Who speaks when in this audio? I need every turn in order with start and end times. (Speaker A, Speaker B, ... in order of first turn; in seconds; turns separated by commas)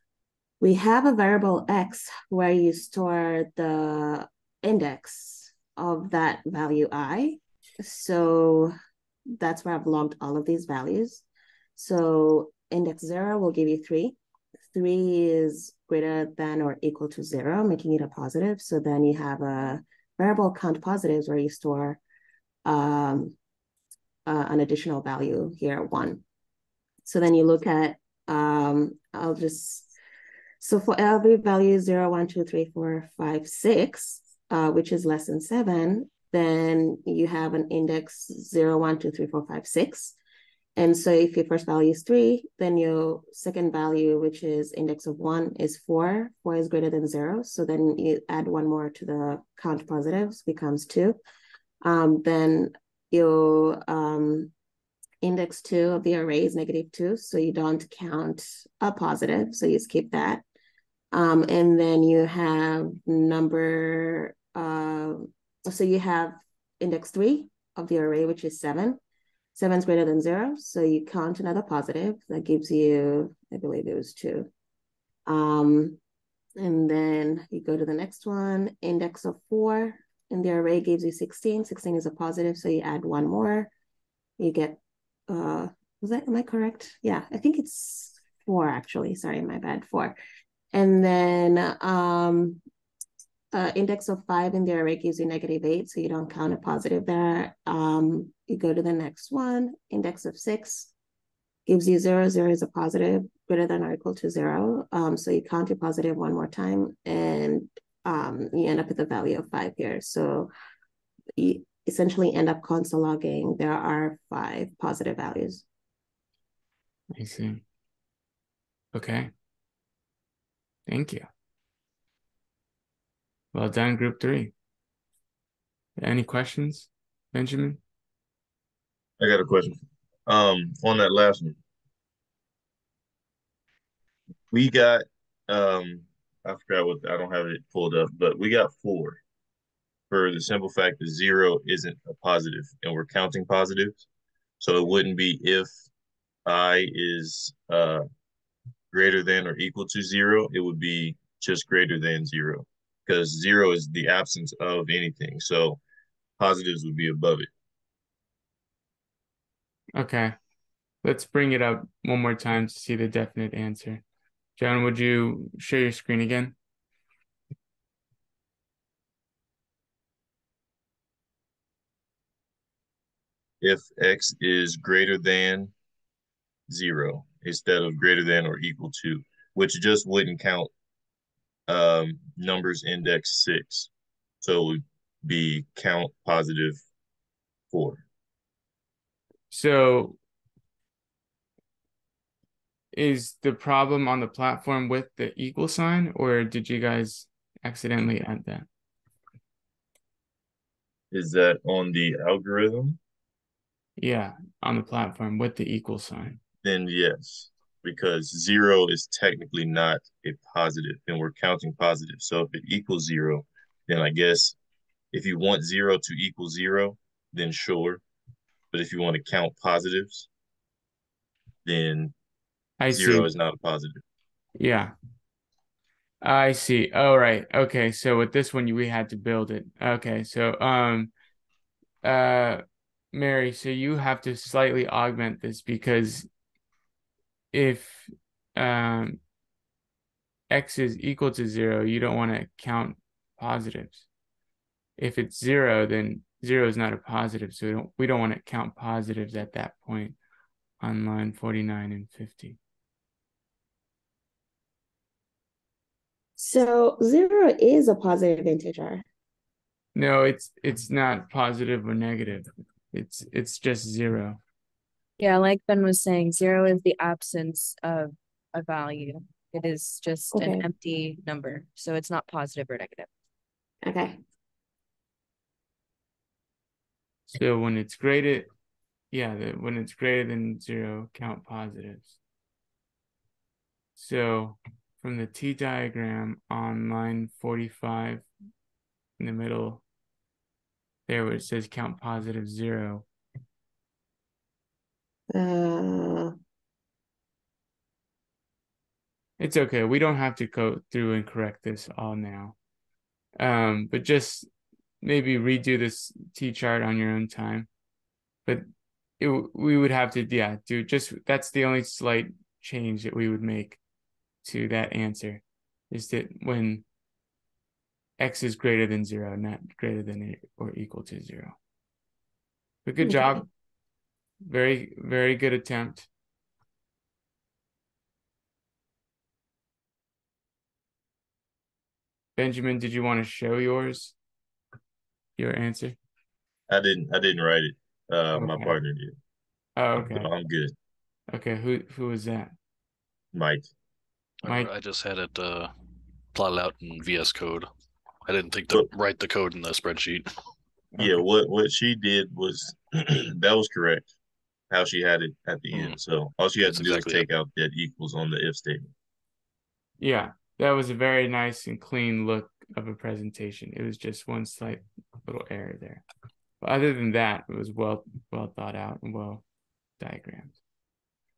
Speaker A: 0.6-8.7, Speaker A: 9.4-11.2, Speaker A: 11.8-14.2, Speaker A: 14.7-22.0, Speaker A: 22.6-23.4, Speaker A: 24.2-26.2, Speaker A: 27.1-29.9, Speaker A: 30.6-40.1, Speaker A: 40.8-51.2, Speaker A: 51.8-54.5, Speaker A: 55.2-60.4, Speaker A: 61.1-69.0, Speaker A: 69.5-74.5, Speaker A: 75.2-76.0, Speaker A: 76.6-83.7, Speaker A: 84.4-90.2, Speaker A: 90.7-92.6, Speaker A: 93.5-100.9, Speaker A: 101.7-110.5, Speaker A: 111.4-115.7, Speaker B: 117.1-117.6, Speaker B: 118.9-119.3, Speaker B: 120.9-121.2, Speaker B: 123.5-124.5, Speaker B: 126.0-127.8, Speaker C: 129.2-131.6, Speaker C: 134.5-139.2, Speaker C: 140.1-144.0, Speaker C: 144.6-145.7, Speaker C: 146.4-148.0, Speaker C: 148.9-155.8, Speaker C: 156.4-157.5, Speaker B: 159.9-160.3, Speaker B: 161.0-164.0, Speaker B: 164.6-166.6, Speaker C: 173.6-175.7, Speaker C: 176.7-180.7, Speaker C: 181.7-186.8, Speaker C: 187.7-188.0, Speaker B: 189.5-190.2, Speaker B: 192.9-198.7, Speaker C: 201.1-203.0, Speaker B: 204.0-206.4, Speaker C: 206.6-214.6, Speaker C: 215.1-218.0, Speaker C: 218.7-220.3, Speaker C: 221.6-222.1, Speaker B: 222.8-223.3, Speaker C: 222.9-224.0, Speaker B: 224.6-224.9, Speaker B: 226.2-231.1, Speaker B: 232.0-232.6, Speaker B: 233.1-236.3, Speaker B: 237.5-239.2, Speaker B: 240.5-244.1, Speaker B: 245.0-250.2, Speaker B: 250.8-252.6, Speaker A: 256.4-259.0, Speaker B: 259.9-264.4, Speaker D: 265.2-273.1, Speaker A: 270.3-270.7, Speaker A: 273.8-274.2, Speaker B: 277.3-278.5, Speaker B: 279.1-282.2, Speaker B: 283.9-288.3, Speaker B: 289.2-289.8, Speaker B: 291.1-293.1, Speaker A: 295.3-296.3, Speaker B: 299.4-302.6, Speaker B: 303.4-304.5, Speaker B: 305.0-307.7, Speaker B: 309.2-313.8, Speaker B: 314.4-316.9, Speaker B: 318.2-321.5, Speaker B: 322.8-323.5, Speaker B: 324.4-326.1, Speaker B: 332.4-334.1, Speaker B: 335.4-336.0, Speaker C: 336.7-339.1, Speaker B: 338.3-338.8, Speaker B: 339.8-340.3, Speaker C: 340.0-340.7, Speaker B: 341.3-342.5, Speaker C: 343.3-343.7, Speaker E: 344.4-345.7, Speaker E: 346.3-347.7, Speaker E: 348.2-350.4, Speaker C: 350.9-354.1, Speaker B: 351.0-351.2, Speaker C: 354.7-358.9, Speaker E: 355.7-356.0, Speaker E: 356.6-357.2, Speaker B: 360.0-366.0, Speaker B: 366.6-369.4, Speaker B: 370.0-370.6